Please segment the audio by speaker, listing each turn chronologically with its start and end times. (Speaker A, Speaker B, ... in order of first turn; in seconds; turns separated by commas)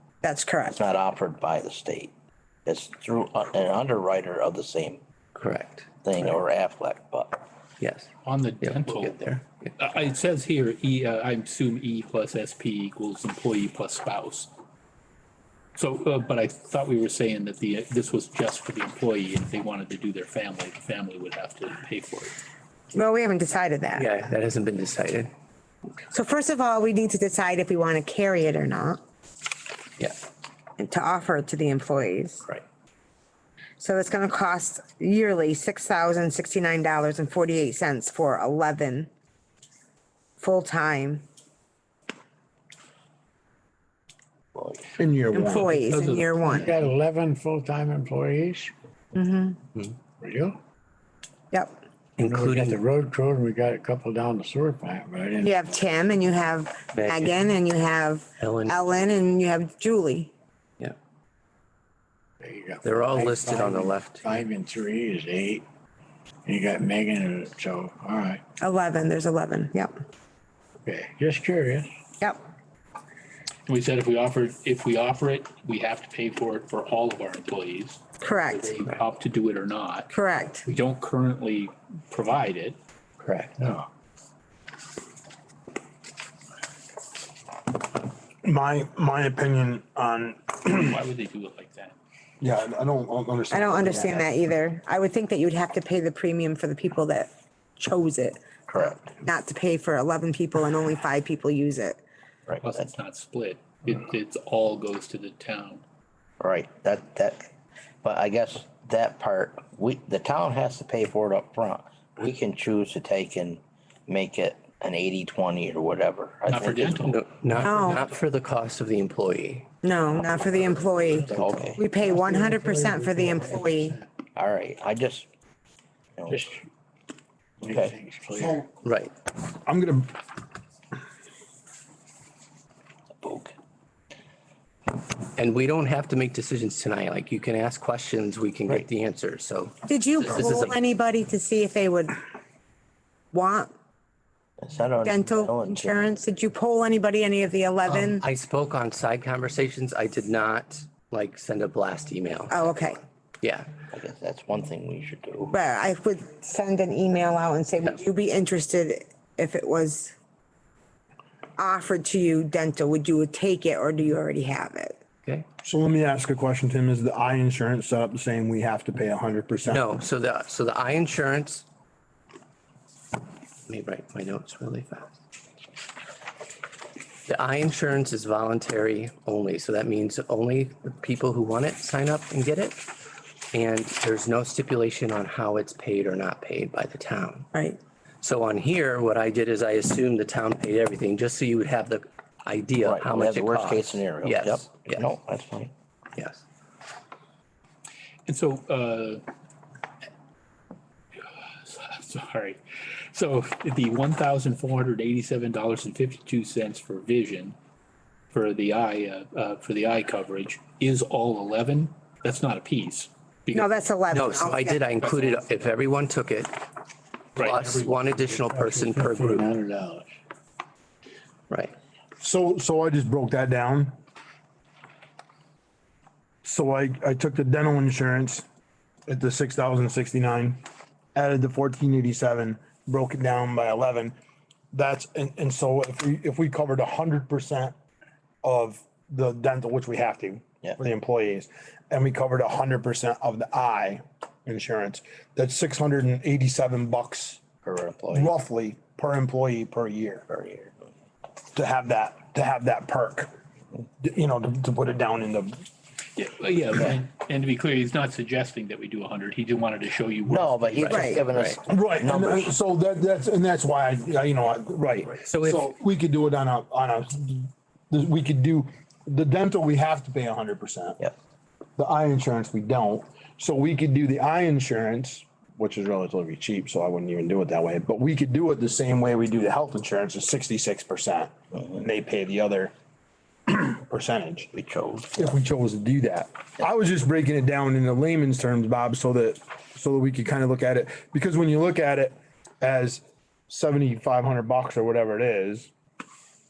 Speaker A: 0.2-0.8, Speaker B: 0.7-2.1, Speaker B: 2.7-5.0, Speaker C: 5.3-5.9, Speaker B: 6.0-7.4, Speaker C: 7.8-8.1, Speaker D: 8.2-9.2, Speaker C: 8.6-9.7, Speaker D: 9.8-14.5, Speaker D: 15.8-22.4, Speaker A: 22.9-24.1, Speaker C: 23.9-25.3, Speaker A: 26.1-29.0, Speaker A: 30.8-32.5, Speaker A: 33.8-39.1, Speaker A: 40.4-41.2, Speaker E: 45.0-45.8, Speaker A: 45.3-46.8, Speaker D: 45.5-46.6, Speaker F: 46.5-48.7, Speaker A: 49.1-49.6, Speaker F: 50.2-50.6, Speaker C: 52.2-52.8, Speaker F: 52.2-55.7, Speaker A: 55.4-60.3, Speaker C: 56.9-57.4, Speaker C: 58.4-58.8, Speaker F: 62.4-65.7, Speaker C: 62.8-64.3, Speaker F: 66.5-68.4, Speaker A: 68.6-70.0, Speaker F: 70.8-71.9, Speaker D: 73.7-82.8, Speaker A: 78.2-78.7, Speaker A: 80.1-80.6, Speaker C: 83.2-83.6, Speaker F: 83.6-83.9, Speaker E: 88.4-91.0, Speaker D: 90.7-92.0, Speaker E: 92.4-94.3, Speaker A: 93.5-102.0, Speaker B: 98.7-99.1, Speaker B: 102.5-102.9, Speaker D: 102.6-105.8, Speaker B: 106.4-107.5, Speaker B: 108.0-117.2, Speaker D: 116.5-117.7, Speaker C: 117.1-119.7, Speaker A: 117.6-118.1, Speaker A: 119.8-124.0, Speaker F: 120.5-124.1, Speaker B: 121.3-121.8, Speaker B: 124.4-125.3, Speaker B: 126.2-126.6, Speaker F: 126.3-126.7, Speaker F: 127.6-128.7, Speaker B: 127.7-128.0, Speaker E: 128.4-128.6, Speaker C: 128.8-129.1, Speaker E: 129.7-130.2, Speaker B: 133.2-133.5, Speaker C: 135.4-140.8, Speaker A: 139.9-142.2, Speaker A: 143.3-143.7, Speaker B: 144.6-146.2, Speaker A: 145.0-148.2, Speaker C: 147.9-153.7, Speaker A: 152.5-153.0, Speaker B: 153.9-155.6, Speaker A: 155.5-160.2, Speaker A: 161.6-165.0, Speaker E: 165.6-169.8, Speaker C: 169.7-171.7, Speaker C: 173.7-175.2, Speaker C: 177.3-182.9, Speaker C: 183.5-187.5, Speaker A: 187.5-187.8, Speaker C: 188.2-195.1, Speaker B: 192.8-195.7, Speaker C: 196.2-196.4, Speaker D: 198.3-199.2, Speaker D: 201.6-202.6, Speaker D: 203.1-207.6, Speaker D: 208.3-213.7, Speaker A: 213.5-214.8, Speaker C: 214.1-216.7, Speaker D: 215.0-215.4, Speaker D: 217.4-217.9, Speaker C: 217.4-219.5, Speaker F: 218.3-220.1, Speaker C: 221.5-221.8, Speaker E: 222.2-224.0, Speaker E: 226.4-228.4, Speaker E: 229.1-230.6, Speaker E: 231.2-234.2, Speaker E: 234.7-237.8, Speaker E: 238.4-247.4, Speaker B: 247.6-248.3, Speaker E: 248.1-250.2, Speaker B: 250.3-250.7, Speaker E: 251.5-253.3, Speaker E: 254.0-255.7, Speaker D: 256.2-261.2, Speaker B: 260.3-262.5, Speaker A: 260.9-261.3, Speaker C: 261.3-261.6, Speaker E: 261.7-271.0, Speaker C: 265.2-265.8, Speaker E: 271.8-282.7, Speaker E: 283.5-284.5, Speaker B: 284.5-285.3, Speaker E: 285.1-295.7